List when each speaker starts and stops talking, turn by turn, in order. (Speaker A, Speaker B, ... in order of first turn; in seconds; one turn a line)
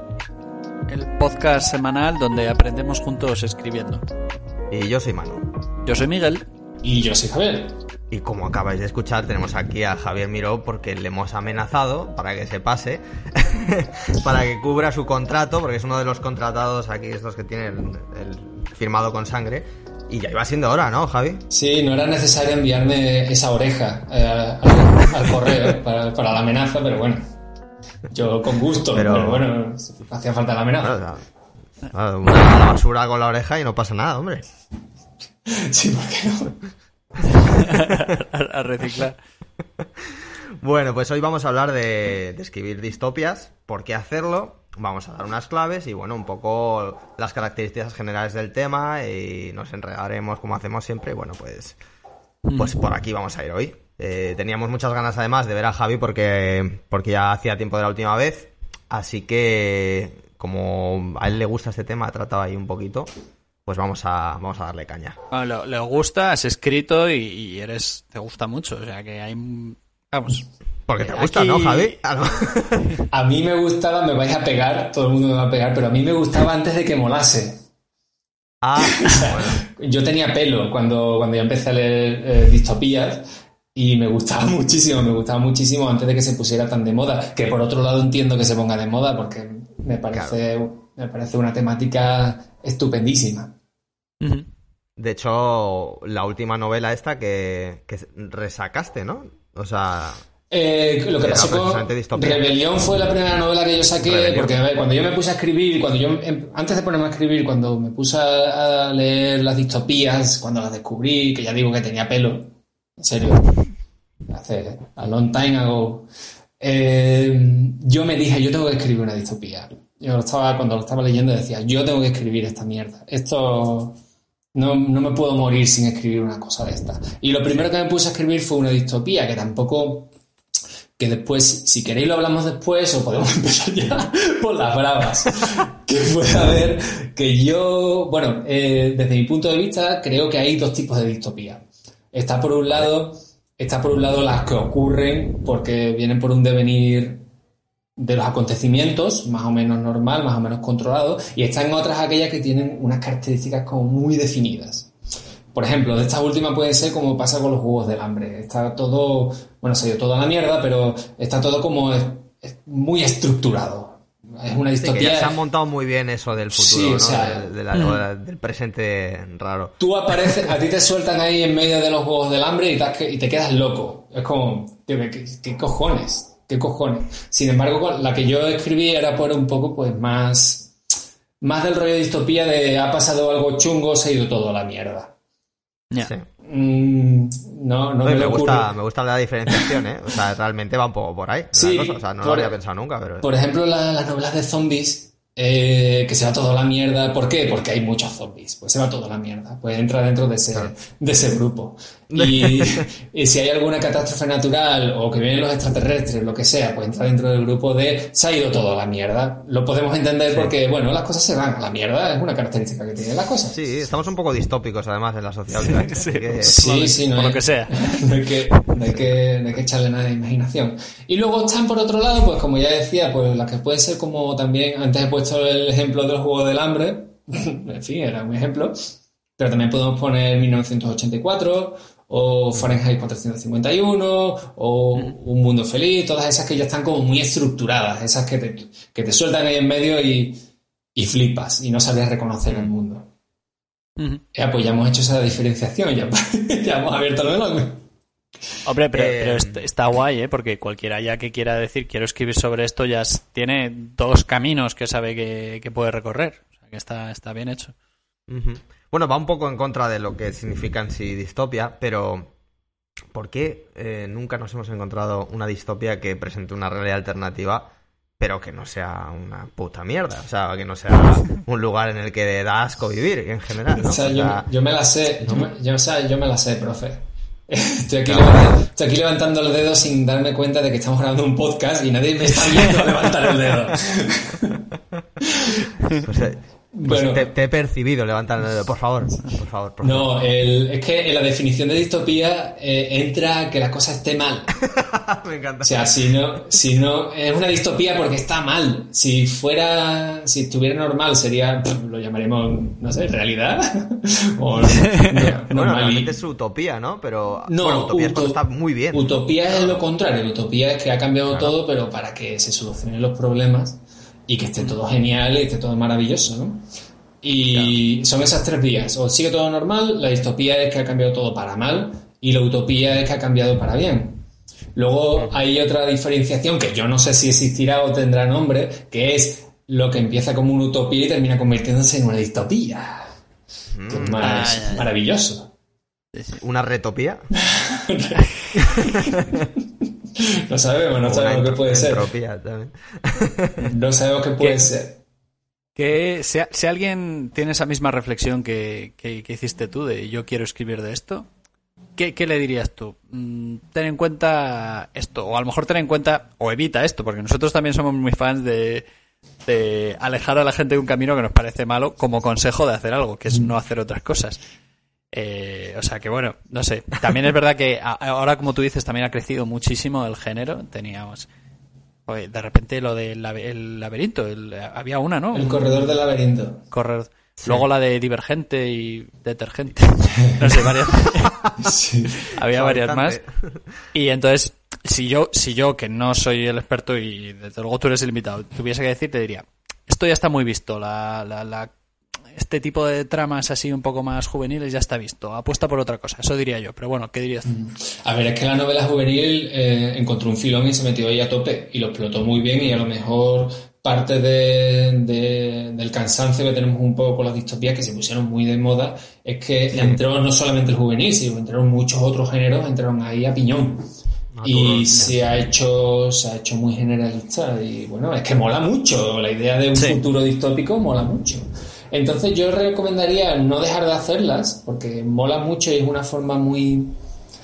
Speaker A: 0.9-4.0
Speaker B: 4.7-5.5
Speaker A: 5.8-6.5
Speaker C: 6.8-7.7
Speaker B: 8.1-21.4
Speaker C: 21.5-27.2
Speaker C: 28.1-31.0
Speaker B: 28.9-29.5
Speaker B: 30.8-31.2
Speaker B: 31.9-34.5
Speaker C: 35.5-36.6
Speaker A: 37.4-39.2
Speaker B: 39.8-51.8
Speaker A: 52.5-52.8
Speaker B: 52.6-63.1
Speaker B: 63.7-65.2
Speaker A: 65.3-70.5
Speaker B: 70.9-72.9
Speaker A: 71.0-72.0
Speaker C: 73.1-77.6
Speaker B: 78.6-79.6
Speaker C: 78.8-93.5
Speaker B: 90.1-90.4
Speaker A: 94.2-94.5
Speaker B: 95.0-100.2
Speaker C: 100.5-113.5
Speaker B: 101.2-102.5
Speaker B: 104.0-104.6
Speaker C: 114.3-116.1
Speaker C: 116.6-124.0
Speaker C: 124.5-130.1
Speaker C: 131.0-147.2
Speaker C: 148.0-154.9
Speaker C: 155.5-165.3
Speaker B: 164.8-169.8
Speaker C: 166.5-167.5
Speaker A: 167.7-168.0
Speaker C: 169.8-180.7
Speaker C: 181.4-185.1
Speaker C: 186.4-188.7
Speaker B: 188.0-193.3
Speaker C: 191.5-192.6
Speaker C: 193.2-213.6
Speaker B: 202.1-202.9
Speaker B: 213.5-216.6
Speaker A: 215.5-218.1
Speaker C: 216.4-240.4
Speaker C: 240.9-243.1
Speaker A: 244.0-244.2
Speaker C: 244.3-247.8
Speaker A: 248.7-257.7
Speaker B: 248.9-249.7
Speaker B: 258.3-262.3
Speaker B: 263.1-267.7
Speaker B: 268.2-274.5
Speaker C: 273.8-284.7
Speaker B: 275.2-275.5
Speaker B: 278.1-278.5
Speaker C: 285.2-285.7
Speaker B: 286.0-290.1
Speaker C: 286.7-287.3
Speaker C: 289.8-294.6
Speaker B: 294.6-295.9
Speaker C: 295.6-306.2
Speaker A: 304.7-305.3
Speaker B: 305.5-309.8
Speaker C: 307.4-308.4
Speaker C: 308.9-316.6
Speaker B: 311.3-311.6
Speaker C: 317.2-324.2
Speaker B: 317.5-317.8
Speaker C: 324.8-333.1
Speaker B: 325.2-325.4
Speaker B: 333.7-334.6
Speaker C: 333.9-335.5
Speaker A: 334.2-334.9
Speaker B: 336.4-337.3
Speaker C: 337.4-339.5
Speaker B: 338.6-339.4
Speaker C: 340.2-342.1
Speaker B: 341.0-343.7
Speaker C: 343.7-345.0
Speaker A: 345.8-351.3
Speaker A: 352.0-358.9
Speaker A: 359.5-364.4
Speaker A: 365.1-371.3
Speaker A: 372.1-375.8
Speaker C: 375.3-376.6
Speaker A: 376.7-381.5
Speaker B: 377.4-377.7
Speaker C: 380.2-380.7
Speaker C: 381.6-382.2
Speaker A: 382.2-383.2
Speaker B: 382.5-383.8
Speaker A: 383.9-391.7
Speaker A: 392.4-397.5
Speaker C: 397.5-413.9
Speaker B: 409.7-410.0
Speaker B: 414.3-415.2
Speaker C: 414.4-426.9